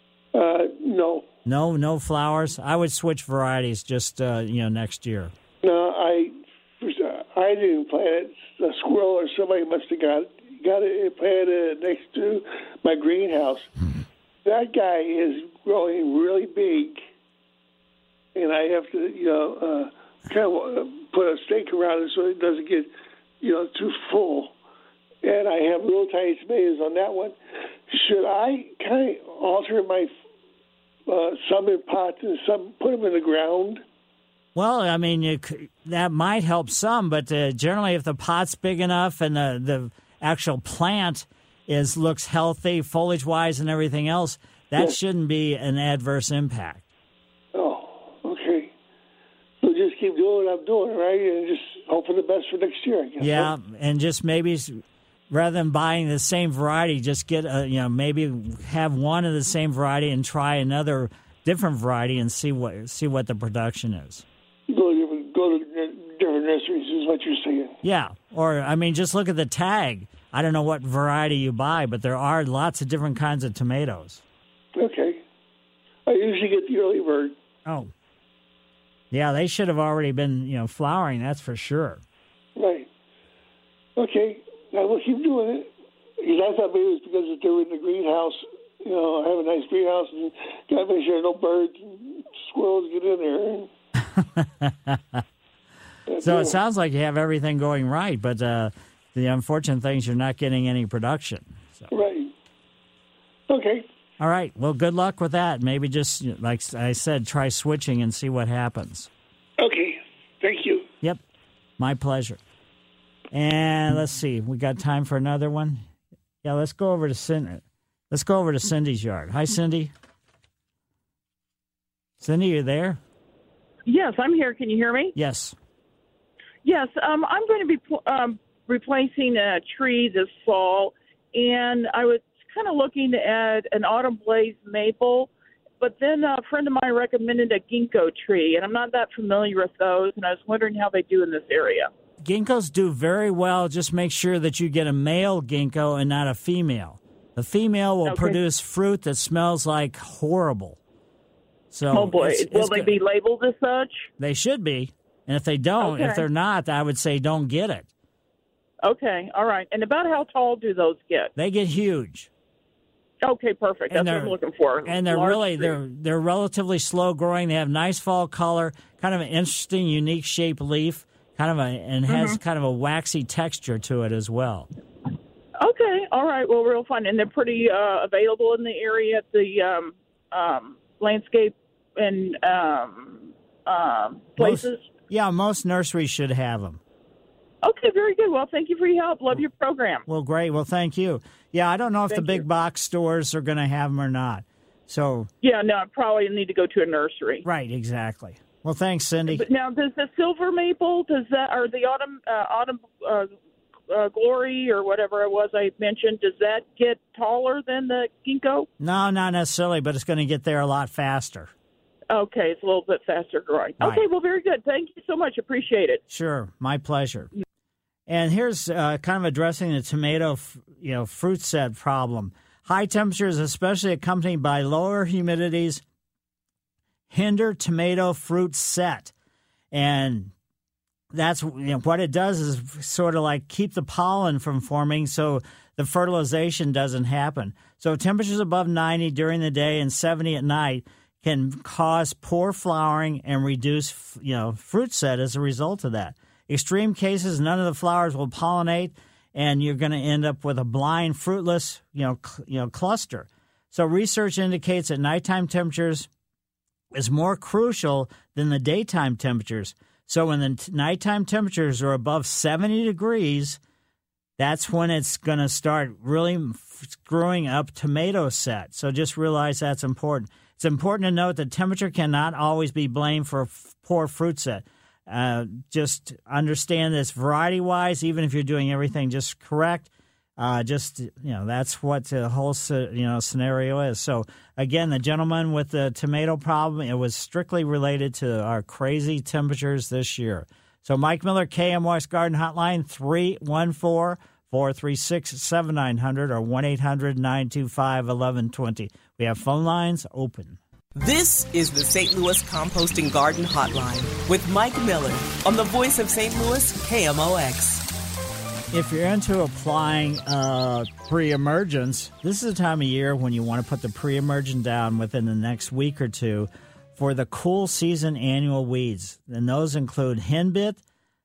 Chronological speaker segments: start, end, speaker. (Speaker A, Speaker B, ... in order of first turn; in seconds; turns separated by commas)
Speaker A: 0.3-1.3, Speaker B: 1.5-5.3, Speaker A: 5.6-13.7, Speaker A: 14.4-17.0, Speaker A: 18.4-24.5, Speaker A: 25.2-27.4, Speaker A: 27.9-30.1, Speaker A: 31.1-33.8, Speaker B: 34.5-46.9, Speaker A: 47.5-48.7, Speaker A: 49.6-53.5, Speaker B: 53.2-64.2, Speaker A: 64.7-67.8, Speaker B: 67.8-74.2, Speaker A: 74.8-75.2, Speaker A: 76.1-77.3, Speaker B: 77.7-77.9, Speaker B: 79.1-82.0, Speaker A: 82.6-82.9, Speaker A: 84.0-85.7, Speaker A: 86.2-93.7, Speaker B: 94.1-95.2, Speaker A: 96.1-96.6, Speaker B: 96.2-101.9, Speaker A: 101.9-102.3, Speaker A: 103.5-103.9, Speaker B: 104.2-109.1, Speaker A: 109.6-110.9, Speaker B: 111.8-112.4, Speaker B: 113.3-115.8, Speaker B: 116.4-119.9, Speaker B: 122.2-123.0, Speaker C: 123.9-125.2, Speaker B: 125.2-125.5, Speaker C: 126.6-141.9, Speaker B: 142.2-150.8, Speaker C: 148.0-148.4, Speaker B: 151.7-152.9, Speaker C: 151.9-154.1, Speaker B: 154.2-157.9, Speaker C: 155.8-156.3, Speaker C: 158.8-161.3, Speaker B: 161.4-162.3, Speaker C: 163.2-165.8, Speaker B: 163.9-174.7, Speaker C: 172.1-172.4, Speaker C: 175.6-184.9, Speaker B: 184.4-186.8, Speaker C: 187.6-190.0, Speaker B: 190.1-195.3, Speaker C: 192.1-192.4, Speaker C: 195.4-197.4, Speaker B: 197.4-199.5, Speaker C: 199.3-203.3, Speaker C: 203.9-208.7, Speaker B: 208.8-211.5, Speaker C: 212.1-216.0, Speaker B: 216.1-217.3, Speaker B: 218.1-225.8, Speaker B: 227.1-229.1, Speaker B: 229.7-230.3, Speaker B: 231.1-256.1, Speaker B: 256.9-263.6, Speaker B: 264.4-300.6, Speaker D: 300.9-307.9, Speaker B: 308.7-320.8